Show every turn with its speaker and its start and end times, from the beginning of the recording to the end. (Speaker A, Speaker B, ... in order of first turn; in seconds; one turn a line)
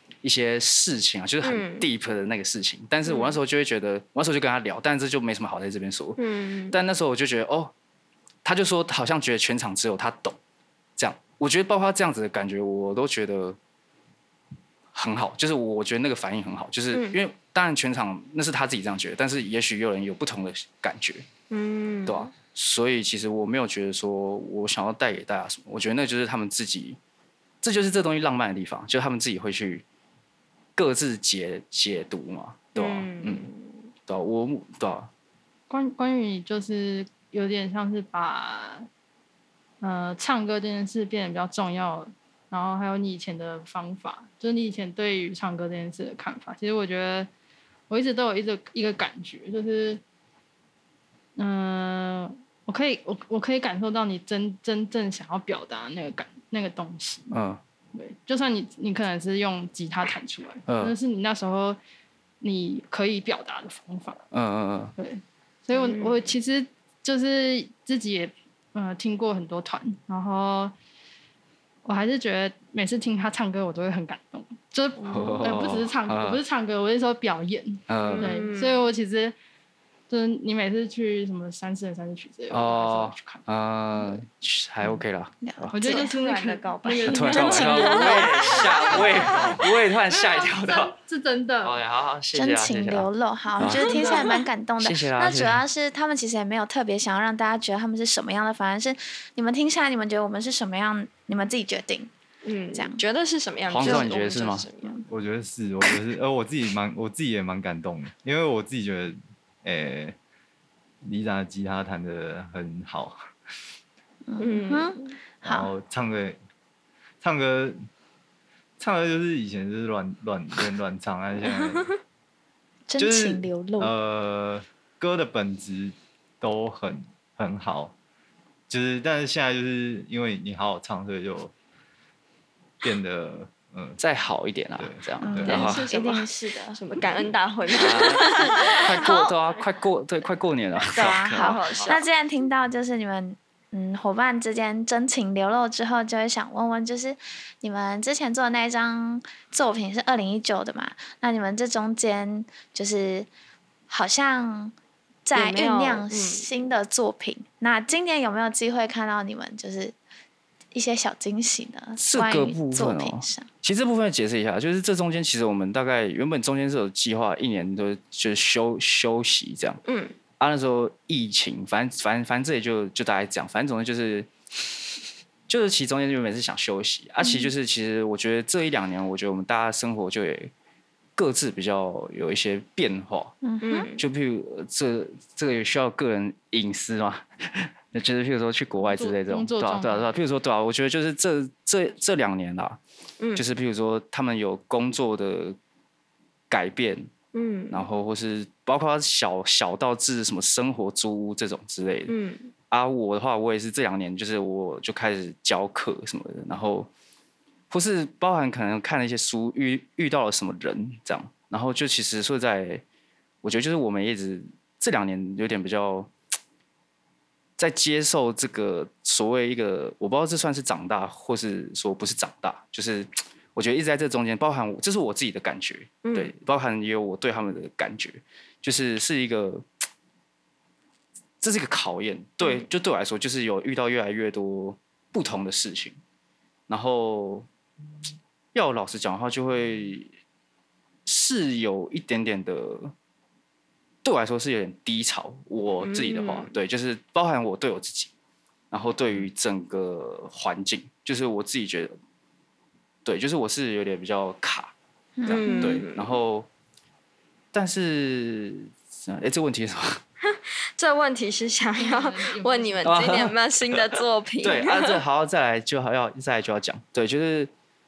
Speaker A: 0.2-7.7
Speaker B: 1.4-1.9
Speaker B: 3.0-3.4
Speaker B: 6.2-6.8
Speaker A: 8.4-10.4
Speaker A: 11.0-13.6
Speaker A: 14.9-21.3
Speaker B: 16.9-17.2
Speaker B: 21.5-22.3
Speaker A: 22.1-27.0
Speaker A: 27.6-29.8
Speaker A: 30.8-33.5
Speaker B: 32.8-33.8
Speaker A: 34.1-35.1
Speaker C: 35.7-38.9
Speaker C: 39.8-47.3
Speaker C: 47.9-50.0
Speaker C: 51.4-57.3
Speaker A: 57.3-57.6
Speaker C: 57.9-61.8
Speaker A: 60.7-61.0
Speaker C: 62.4-64.2
Speaker A: 64.3-64.9
Speaker C: 65.0-70.7
Speaker B: 65.7-66.2
Speaker C: 71.8-79.3
Speaker B: 75.0-75.8
Speaker A: 75.0-76.4
Speaker A: 77.9-78.4
Speaker B: 78.0-78.9
Speaker C: 80.1-83.4
Speaker A: 82.5-85.8
Speaker D: 85.4-89.0
Speaker C: 85.7-91.8
Speaker B: 85.8-86.1
Speaker A: 87.0-91.0
Speaker B: 87.3-88.9
Speaker A: 91.6-94.2
Speaker D: 92.3-102.1
Speaker C: 93.7-94.3
Speaker A: 94.8-95.6
Speaker B: 102.5-105.0
Speaker D: 102.7-103.0
Speaker A: 103.7-104.7
Speaker E: 105.1-110.2
Speaker E: 111.0-113.2
Speaker D: 114.3-115.7
Speaker B: 114.4-115.2
Speaker E: 115.4-116.4
Speaker E: 117.2-117.8
Speaker E: 118.8-121.9
Speaker B: 121.6-122.0
Speaker D: 122.9-123.9
Speaker E: 123.0-127.9
Speaker E: 128.7-131.5
Speaker E: 132.8-134.0
Speaker A: 134.0-135.9
Speaker E: 134.8-135.7
Speaker D: 135.2-136.8
Speaker B: 135.5-139.2
Speaker A: 137.7-141.9
Speaker D: 138.2-139.4
Speaker D: 140.9-153.3
Speaker B: 141.0-142.1
Speaker D: 153.9-154.7
Speaker D: 155.2-159.9
Speaker B: 155.3-156.5
Speaker D: 160.7-163.5
Speaker A: 162.0-169.8
Speaker B: 169.9-170.2
Speaker A: 170.4-174.3
Speaker A: 175.5-180.5
Speaker A: 181.2-183.4
Speaker D: 183.4-183.9
Speaker B: 183.6-184.0
Speaker A: 184.0-192.8
Speaker C: 188.8-190.1
Speaker A: 193.3-195.6
Speaker A: 196.5-197.1
Speaker B: 197.3-197.9
Speaker A: 197.7-202.1
Speaker B: 202.1-202.5
Speaker A: 202.7-206.9
Speaker A: 207.7-212.8
Speaker A: 213.4-216.1
Speaker A: 217.6-229.6
Speaker B: 226.0-226.3
Speaker A: 231.4-236.0
Speaker A: 236.7-237.5
Speaker A: 238.5-240.1
Speaker A: 241.1-242.9
Speaker A: 244.0-248.1
Speaker B: 245.8-246.5
Speaker A: 248.7-251.9
Speaker A: 253.1-254.7
Speaker D: 255.2-255.8
Speaker A: 255.3-256.5
Speaker B: 255.3-256.2
Speaker A: 257.5-260.0
Speaker B: 260.3-265.0
Speaker C: 261.8-263.3
Speaker A: 262.9-267.5